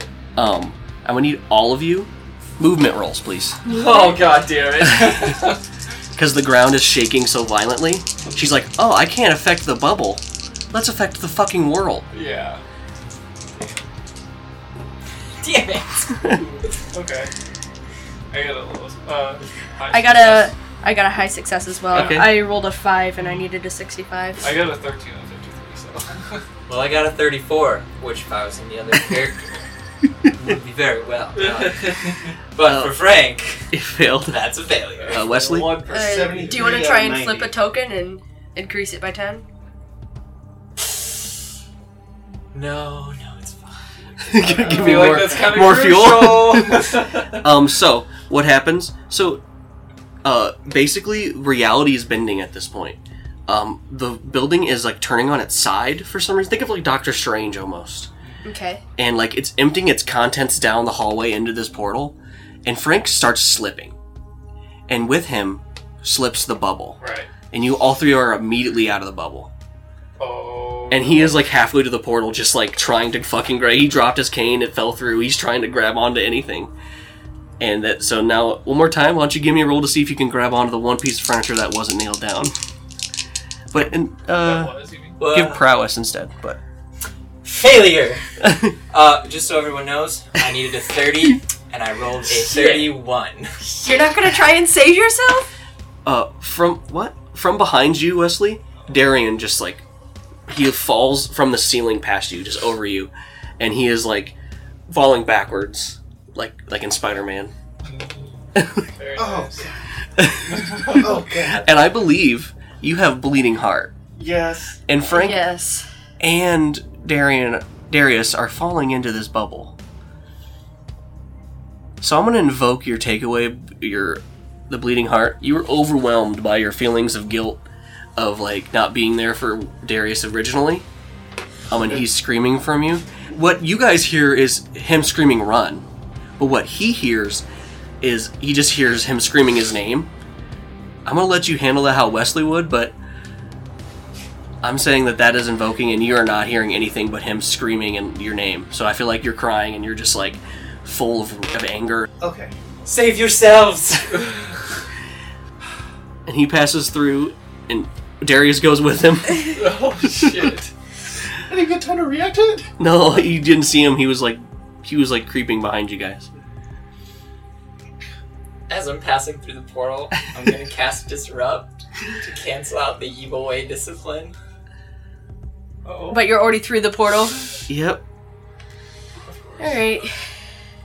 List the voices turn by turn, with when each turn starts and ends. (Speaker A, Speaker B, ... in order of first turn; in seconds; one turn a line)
Speaker A: 0.3-3.6
Speaker B: 3.7-5.6
Speaker C: 3.7-4.3
Speaker A: 4.8-5.5
Speaker A: 6.2-12.1
Speaker B: 12.1-12.6
Speaker B: 13.5-13.8
Speaker D: 15.4-16.3
Speaker B: 16.3-17.3
Speaker B: 18.3-20.5
Speaker C: 19.9-24.5
Speaker A: 21.9-22.4
Speaker B: 24.4-26.4
Speaker D: 26.7-29.7
Speaker D: 30.3-35.3
Speaker B: 31.4-32.2
Speaker A: 32.6-33.0
Speaker A: 33.7-34.4
Speaker B: 35.0-36.8
Speaker A: 35.1-35.8
Speaker C: 35.9-39.4
Speaker E: 35.9-37.6
Speaker D: 42.5-45.2
Speaker A: 44.2-49.4
Speaker B: 44.4-47.5
Speaker A: 50.2-58.1
Speaker C: 58.4-58.8
Speaker A: 59.0-64.0
Speaker A: 64.9-67.0
Speaker B: 67.0-67.3
Speaker A: 67.5-69.5
Speaker B: 70.2-71.4
Speaker A: 70.9-76.7
Speaker A: 77.6-82.5
Speaker A: 83.7-86.6
Speaker B: 84.4-85.2
Speaker D: 85.2-85.6
Speaker D: 87.4-93.8
Speaker C: 93.8-95.5
Speaker A: 96.0-99.8
Speaker A: 100.5-104.3
Speaker A: 104.9-107.5
Speaker B: 107.8-108.4
Speaker A: 108.6-108.9
Speaker B: 108.9-109.7
Speaker E: 109.2-109.8
Speaker A: 110.2-113.9
Speaker B: 110.6-111.0
Speaker E: 110.8-111.7
Speaker E: 114.2-114.8
Speaker A: 114.9-115.4
Speaker C: 115.1-115.9
Speaker A: 116.2-119.8
Speaker A: 122.0-127.6
Speaker A: 128.2-130.9
Speaker A: 131.7-135.8
Speaker A: 136.4-137.4
Speaker A: 138.0-140.1
Speaker A: 141.1-143.0
Speaker A: 144.6-152.1
Speaker E: 152.2-152.5
Speaker D: 152.8-154.3
Speaker A: 156.2-160.2
Speaker B: 159.4-160.7
Speaker E: 161.5-162.7
Speaker A: 162.8-166.3
Speaker D: 168.7-174.3
Speaker B: 175.8-176.3
Speaker C: 176.1-177.6
Speaker A: 177.7-178.0
Speaker B: 179.2-179.9
Speaker C: 179.6-180.2